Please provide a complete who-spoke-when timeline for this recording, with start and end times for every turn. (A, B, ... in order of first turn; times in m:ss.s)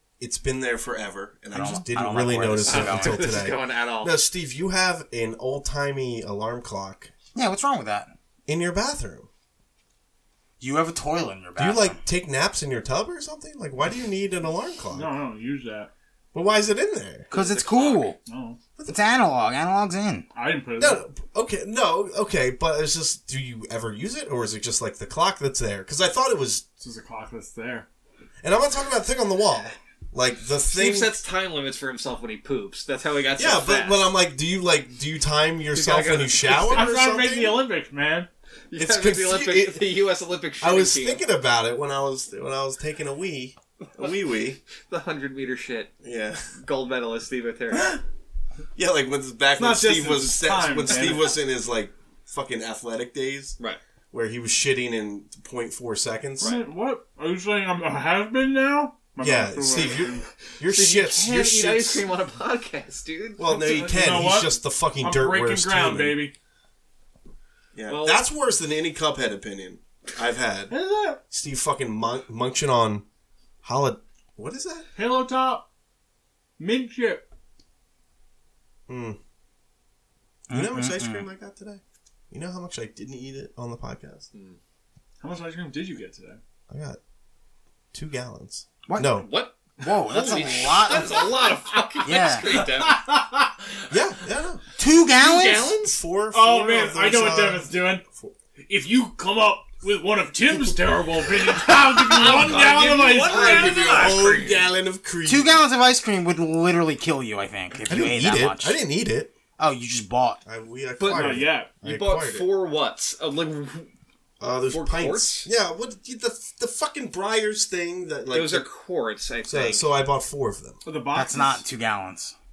0:00.2-0:07.1 A
0:01.5-0:03.4 B
0:02.6-0:04.1 C
0:07.3-0:08.1 B
0:08.5-0:09.3 A
0:10.6-0:12.0 B
0:11.6-0:15.1 A
0:14.9-0:15.9 D
0:16.3-0:17.3 A
0:17.3-0:18.1 C
0:17.3-0:18.2 B
0:18.3-0:18.6 D
0:18.9-0:20.3 B
0:20.3-0:21.0 D
0:20.8-0:26.6 A
0:26.8-0:27.9 D
0:28.4-0:31.1 A
0:30.7-0:34.0 C
0:33.4-0:37.6 A
0:35.7-0:36.9 C
0:36.5-0:38.3 D
0:38.7-0:41.2 C
0:38.8-0:39.8 A
0:40.6-0:44.6 A
0:44.7-0:45.9 C
0:46.0-0:46.5 A
0:46.5-0:48.0 C
0:48.8-0:53.6 A
0:49.6-0:51.4 D
0:54.1-0:56.6 A
0:56.4-0:56.6 C
0:56.4-1:00.2 D
0:59.2-1:02.0 A
1:00.5-1:04.2 C
1:03.4-1:06.2 A
1:03.8-1:06.3 D
1:07.7-1:10.7 A
1:07.9-1:08.2 C
1:10.7-1:11.2 D
1:11.3-1:13.0 A
1:13.6-1:14.9 A
1:15.0-1:15.6 D
1:16.6-1:17.2 D
1:18.9-1:19.2 A
1:20.5-1:21.3 B
1:20.5-1:24.3 A
1:24.3-1:24.6 C
1:25.2-1:26.4 D
1:26.7-1:27.0 A
1:27.9-1:29.3 A
1:28.9-1:29.2 B
1:29.1-1:33.0 C
1:29.8-1:31.3 B
1:32.0-1:32.4 B
1:32.4-1:33.5 D
1:33.9-1:34.6 A
1:34.8-1:35.7 B
1:35.2-1:36.0 C
1:35.4-1:38.3 A
1:36.3-1:38.0 D
1:38.6-1:44.3 D
1:41.7-1:45.6 A
1:42.0-1:44.7 C
1:45.2-1:48.8 B
1:47.8-1:49.3 A
1:49.6-1:50.4 B
1:50.4-1:52.5 A
1:51.0-1:53.9 C
1:51.1-1:51.7 D
1:54.4-1:58.7 A
1:54.7-1:55.5 C
1:58.3-1:59.8 C
1:59.4-2:00.8 A
2:00.8-2:01.6 D
2:01.1-2:02.3 B